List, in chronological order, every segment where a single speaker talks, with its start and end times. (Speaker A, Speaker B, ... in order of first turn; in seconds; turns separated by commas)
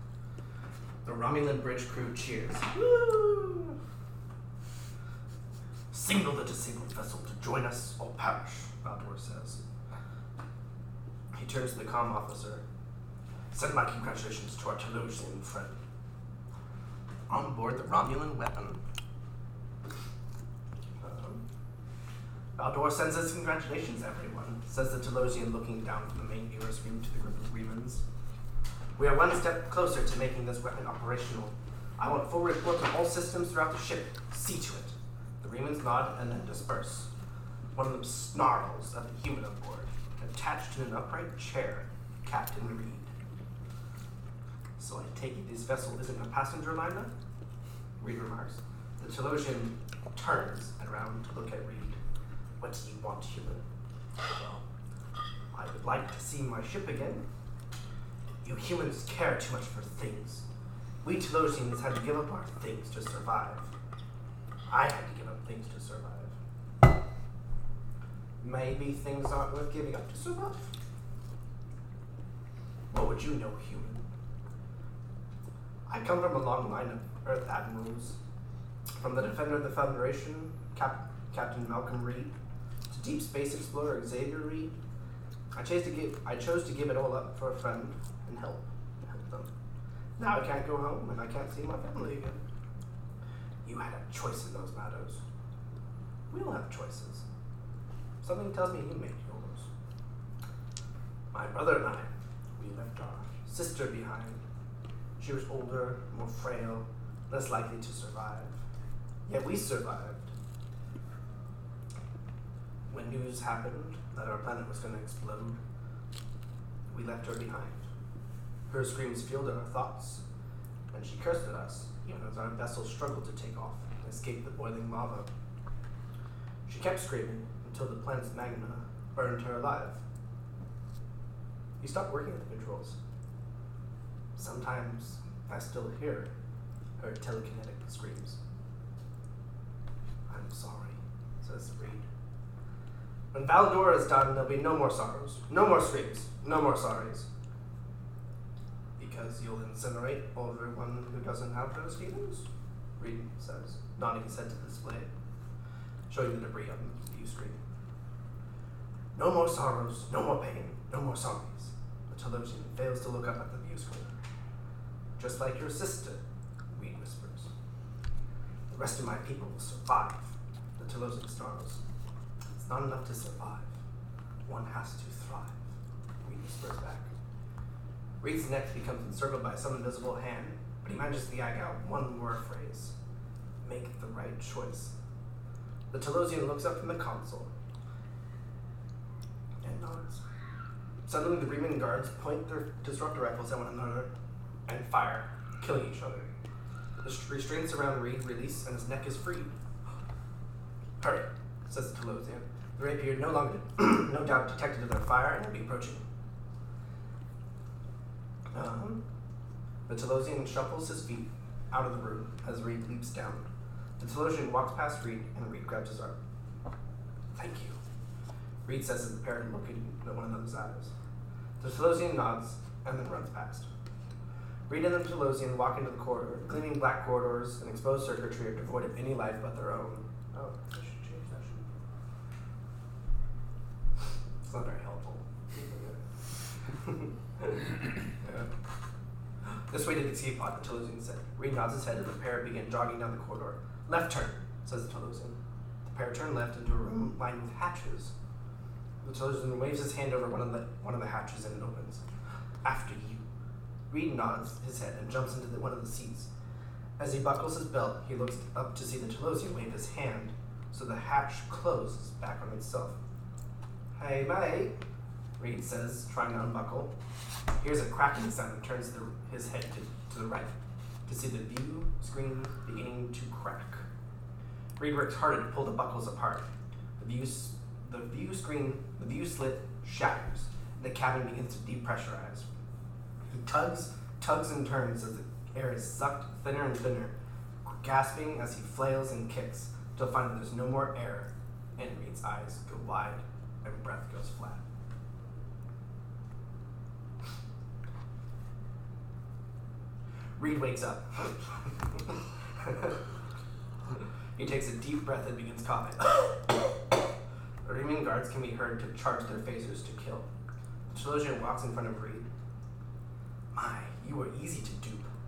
Speaker A: 1.1-3.8, Speaker A: 5.9-9.6, Speaker A: 11.3-12.6, Speaker A: 13.5-15.8, Speaker A: 17.3-18.8, Speaker A: 21.0-21.4, Speaker A: 22.6-28.0, Speaker A: 29.0-37.1, Speaker A: 37.8-43.1, Speaker A: 44.8-47.1, Speaker A: 48.0-52.0, Speaker A: 52.6-53.6, Speaker A: 54.2-54.6, Speaker A: 55.5-57.2, Speaker A: 58.4-60.5, Speaker A: 61.0-63.7, Speaker A: 64.7-66.3, Speaker A: 68.4-70.7, Speaker A: 72.9-74.0, Speaker A: 75.9-78.2, Speaker A: 79.0-82.3, Speaker A: 82.9-84.8, Speaker A: 85.5-89.5, Speaker A: 90.2-92.4, Speaker A: 93.6-95.2, Speaker A: 96.3-97.2, Speaker A: 98.2-99.7, Speaker A: 101.3-104.4, Speaker A: 105.2-108.6, Speaker A: 109.3-110.3, Speaker A: 112.9-115.6, Speaker A: 116.9-117.8, Speaker A: 118.7-120.2, Speaker A: 120.9-125.3, Speaker A: 126.7-130.0, Speaker A: 131.8-133.0, Speaker A: 134.4-136.3, Speaker A: 137.0-138.4, Speaker A: 140.3-142.1, Speaker A: 143.3-147.3, Speaker A: 149.0-152.5, Speaker A: 153.0-155.1, Speaker A: 156.1-157.6, Speaker A: 159.2-164.1, Speaker A: 165.2-166.2, Speaker A: 166.7-167.5, Speaker A: 168.7-171.8, Speaker A: 172.5-173.7, Speaker A: 174.5-175.6, Speaker A: 176.2-177.1, Speaker A: 178.2-182.9, Speaker A: 183.6-184.9, Speaker A: 185.9-187.5, Speaker A: 189.6-190.2, Speaker A: 191.1-194.1, Speaker A: 194.7-196.3, Speaker A: 197.0-199.5, Speaker A: 201.0-206.0, Speaker A: 208.5-209.0, Speaker A: 209.9-213.5, Speaker A: 214.0-216.2, Speaker A: 217.3-217.8, Speaker A: 218.7-220.9, Speaker A: 221.6-223.7, Speaker A: 224.7-231.7, Speaker A: 234.4-236.0, Speaker A: 236.8-238.5, Speaker A: 239.7-248.1, Speaker A: 249.0-252.0, Speaker A: 252.6-253.2, Speaker A: 253.9-256.3, Speaker A: 257.0-263.0, Speaker A: 263.9-264.8, Speaker A: 265.4-266.9, Speaker A: 267.6-270.5, Speaker A: 271.1-273.8, Speaker A: 274.8-276.5, Speaker A: 277.0-282.5, Speaker A: 283.3-294.6, Speaker A: 300.4-303.0, Speaker A: 304.4-306.7, Speaker A: 307.6-310.3, Speaker A: 310.9-312.3, Speaker A: 313.5-315.1